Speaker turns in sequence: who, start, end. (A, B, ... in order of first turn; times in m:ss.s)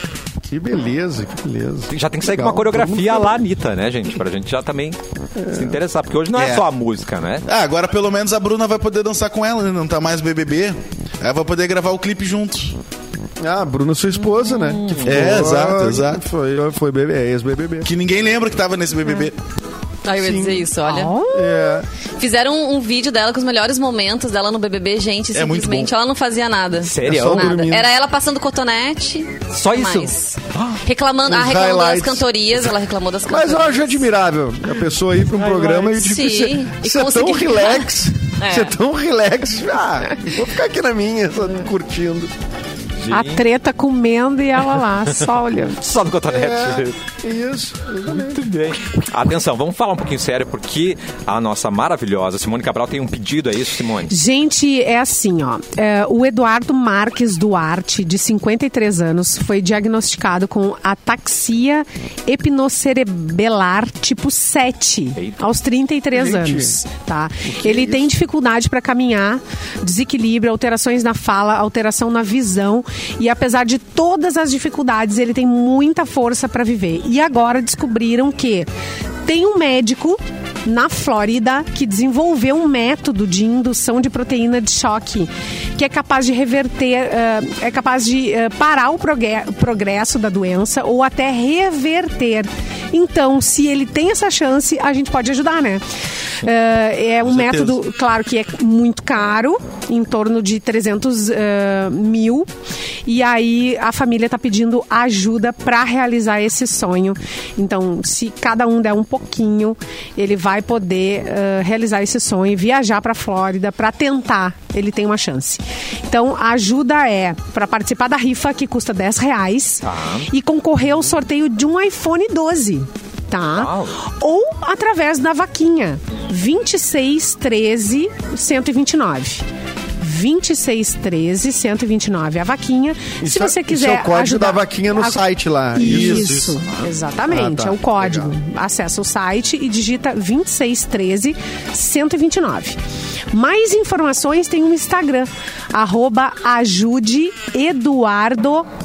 0:00.5-0:03.4 A
0:01.9-0:05.0 B
0:05.4-0:05.8 A
0:05.5-0:07.4 B
0:06.3-0:06.6 C
0:07.4-0:12.8 C
0:13.4-0:17.9 A
0:14.6-0:15.3 B
0:15.0-0:16.2 C
0:17.8-0:19.4 C
0:20.0-0:21.2 D
0:20.1-0:20.7 A
0:20.8-0:21.6 E
0:21.3-0:21.9 A
0:22.2-0:34.1 D
0:25.3-0:25.9 C
0:26.8-0:27.6 B
0:27.0-0:27.9 A
0:29.5-0:30.8 B
0:31.3-0:32.7 A
0:33.2-0:42.3 A
0:35.4-0:36.0 B
0:36.0-0:37.9 D
0:38.4-0:38.7 D
0:43.0-0:43.4 B
0:43.1-0:45.8 E
0:45.6-0:47.0 B
0:46.3-0:48.4 A
0:48.1-0:54.2 B
0:54.1-1:18.7 E
1:05.2-1:05.4 B
1:06.1-1:06.8 A
1:07.4-1:08.1 A
1:19.2-1:35.8 E
1:36.4-1:42.5 E
1:37.2-1:37.8 C
1:43.0-2:09.4 E
1:59.8-2:00.3 B
2:03.6-2:04.0 B
2:10.0-2:15.2 E
2:13.2-2:16.4 A
2:15.7-2:22.8 E
2:15.8-2:16.6 C
2:17.3-2:18.3 A
2:23.3-2:28.7 E